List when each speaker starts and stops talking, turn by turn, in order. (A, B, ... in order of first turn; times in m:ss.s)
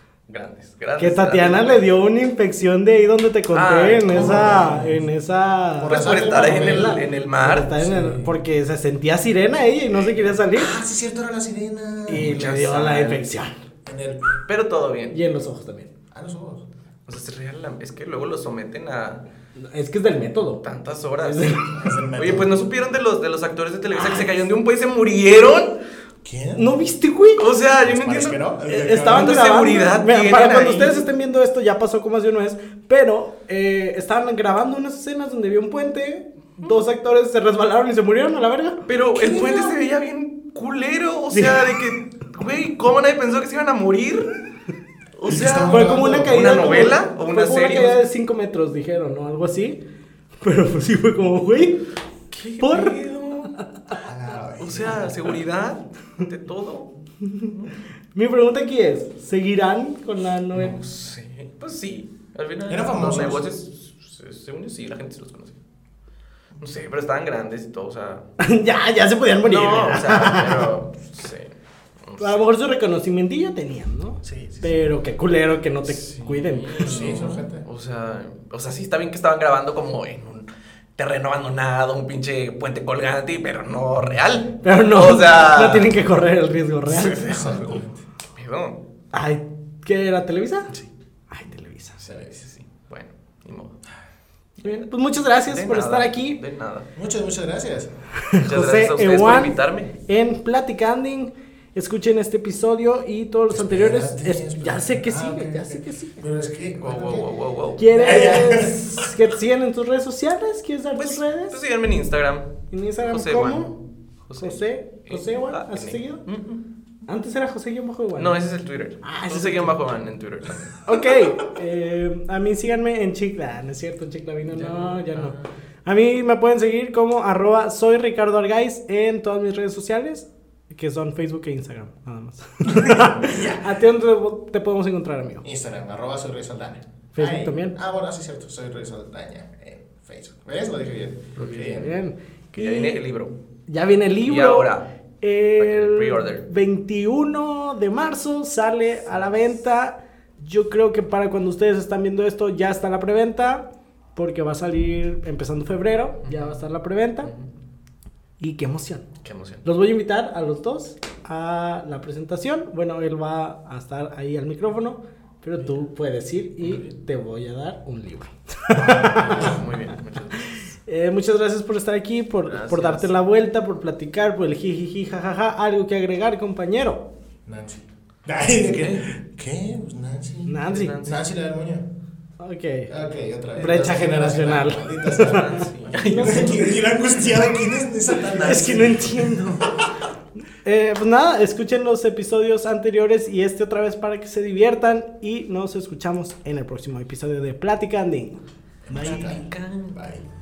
0:00.3-0:01.8 A
0:01.0-0:10.7 B
0:03.5-0:04.7 A
0:04.1-0:05.0 C
0:05.8-0:07.0 C
0:05.9-0:07.8 A
0:07.8-0:08.3 C
0:10.5-0:12.3 C
0:12.1-0:13.5 B
0:12.1-0:13.3 A
0:13.8-0:14.3 C
0:14.5-0:15.2 A
0:15.1-0:15.9 B
0:16.1-0:16.6 C
0:17.1-0:19.2 A
0:19.6-0:20.6 B
0:20.6-0:21.5 A
0:21.2-0:21.7 B
0:21.7-0:22.6 C
0:22.2-0:25.8 A
0:23.9-0:24.3 B
0:26.2-0:26.7 C
0:26.6-0:27.5 B
0:27.4-0:28.4 A
0:27.8-0:29.4 C
0:28.7-0:38.8 B
0:29.0-0:31.0 A
0:38.9-0:44.3 A
0:39.1-0:39.7 C
0:41.3-0:41.8 B
0:45.2-0:48.0 A
0:45.3-0:46.4 C
0:45.7-0:49.8 B
0:50.4-0:51.8 B
0:52.3-0:53.5 A
0:52.6-0:53.0 B
0:53.9-0:55.1 C
0:54.6-0:56.9 A
0:57.2-0:57.5 B
0:58.1-1:00.7 B
1:00.5-1:05.6 A
1:02.7-1:03.4 C
1:06.6-1:08.2 A
1:08.4-1:10.7 B
1:09.4-1:12.4 A
1:12.2-1:16.9 B
1:14.2-1:14.9 A
1:15.9-1:25.9 A
1:16.8-1:17.6 C
1:24.6-1:27.2 B
1:26.9-1:27.8 A
1:27.3-1:28.0 C
1:28.3-1:28.8 A
1:29.1-1:30.7 B
1:31.3-1:32.0 B
1:32.0-1:33.8 A
1:32.0-1:32.4 C
1:34.6-1:36.9 A
1:34.6-1:36.4 B
1:36.9-1:37.9 C
1:38.2-1:46.2 B
1:38.4-1:39.9 A
1:43.5-1:47.3 C
1:46.8-1:47.8 A
1:47.8-1:51.6 B
1:47.9-1:49.1 C
1:50.9-1:56.6 A
1:52.7-1:53.7 B
1:54.4-1:56.2 B
1:57.1-1:58.4 B
1:58.2-2:01.0 A
1:59.0-1:59.8 B
2:00.8-2:15.4 B
2:04.5-2:05.5 A
2:12.7-2:13.7 C
2:15.4-2:21.9 C
2:17.1-2:17.8 B
2:21.4-2:23.0 B
2:22.5-2:23.3 A
2:23.7-2:37.3 B
2:24.2-2:24.8 A
2:25.6-2:26.4 A
2:36.2-2:36.6 A
2:37.2-2:37.5 A
2:38.4-2:39.0 B
2:39.2-2:39.6 A
2:39.6-2:49.6 B
2:46.6-2:46.9 A
2:48.8-2:49.6 C
2:48.8-2:50.6 A
2:50.4-2:57.0 B
2:52.5-2:53.1 A
2:57.4-3:01.8 C
2:58.7-2:59.0 A
3:00.5-3:00.9 B
3:00.6-3:01.2 A
3:02.4-3:02.9 B
3:02.9-3:05.6 C
3:03.5-3:06.7 B
3:05.2-3:06.7 A
3:06.2-3:09.7 C
3:08.3-3:09.6 B
3:10.6-3:18.4 B
3:18.8-3:20.2 C
3:18.9-3:19.3 B
3:18.9-3:20.0 A